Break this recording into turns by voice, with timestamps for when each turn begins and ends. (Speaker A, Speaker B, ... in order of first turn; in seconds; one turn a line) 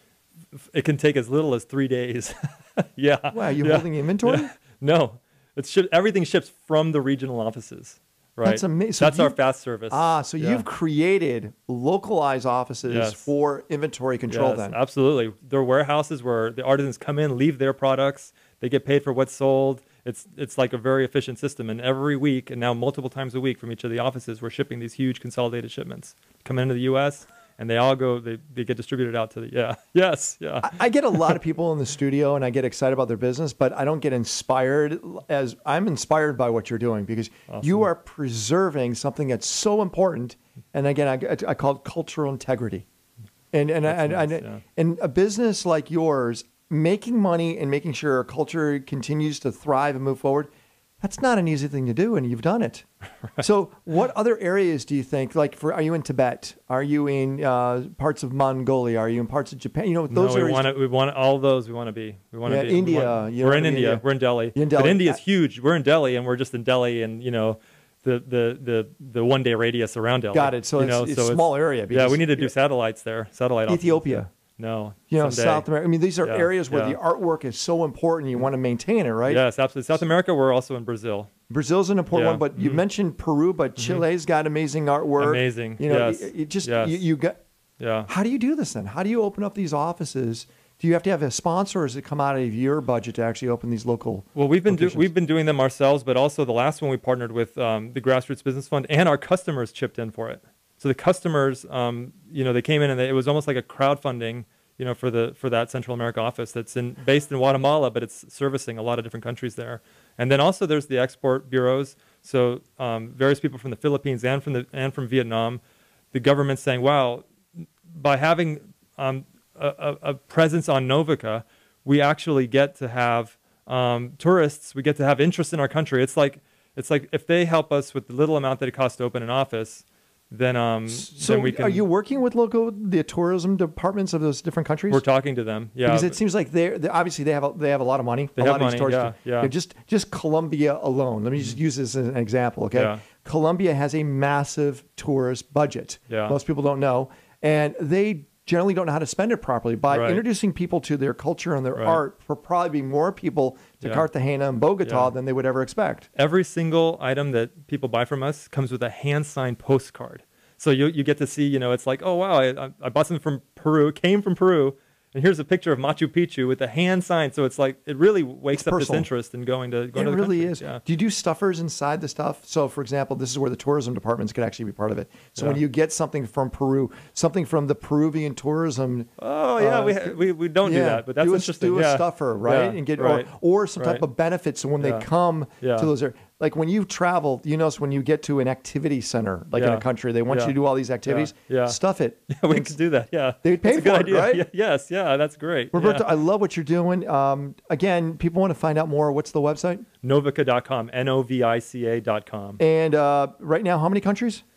Speaker A: 0.5-10.6
Speaker B: 3.3-4.5
Speaker B: 8.4-9.3
Speaker B: 9.9-14.8
Speaker A: 12.9-13.3
Speaker A: 14.3-31.4
Speaker B: 30.6-42.9
Speaker A: 37.5-37.9
Speaker B: 43.5-50.5
Speaker A: 43.8-44.6
Speaker B: 51.0-52.9
Speaker B: 53.4-60.7
Speaker A: 60.1-75.7
Speaker B: 62.5-64.0
Speaker B: 64.5-65.2
Speaker B: 70.3-72.5
Speaker B: 73.7-74.3
Speaker B: 75.1-79.4
Speaker A: 76.2-77.0
Speaker A: 79.3-81.3
Speaker B: 81.5-87.4
Speaker A: 82.1-82.8
Speaker A: 83.8-84.0
Speaker A: 85.2-87.0
Speaker A: 87.8-88.1
Speaker B: 88.1-95.1
Speaker A: 94.3-115.6
Speaker A: 116.1-117.3
Speaker A: 117.9-131.8
Speaker B: 130.9-135.0
Speaker A: 134.9-136.2
Speaker B: 135.8-156.1
Speaker A: 138.3-139.5
Speaker A: 142.7-143.0
Speaker A: 146.1-146.3
Speaker A: 149.9-150.2
Speaker A: 151.7-152.0
Speaker A: 153.8-154.1
Speaker A: 154.8-155.1
Speaker A: 156.2-170.8
Speaker B: 168.5-169.1
Speaker B: 169.9-192.8
Speaker A: 175.3-175.6
Speaker A: 179.2-184.0
Speaker A: 184.8-185.1
Speaker A: 185.6-185.9
Speaker A: 189.5-191.8
Speaker A: 192.3-196.1
Speaker B: 193.4-194.4
Speaker B: 195.7-199.8
Speaker A: 200.0-202.6
Speaker B: 202.6-204.4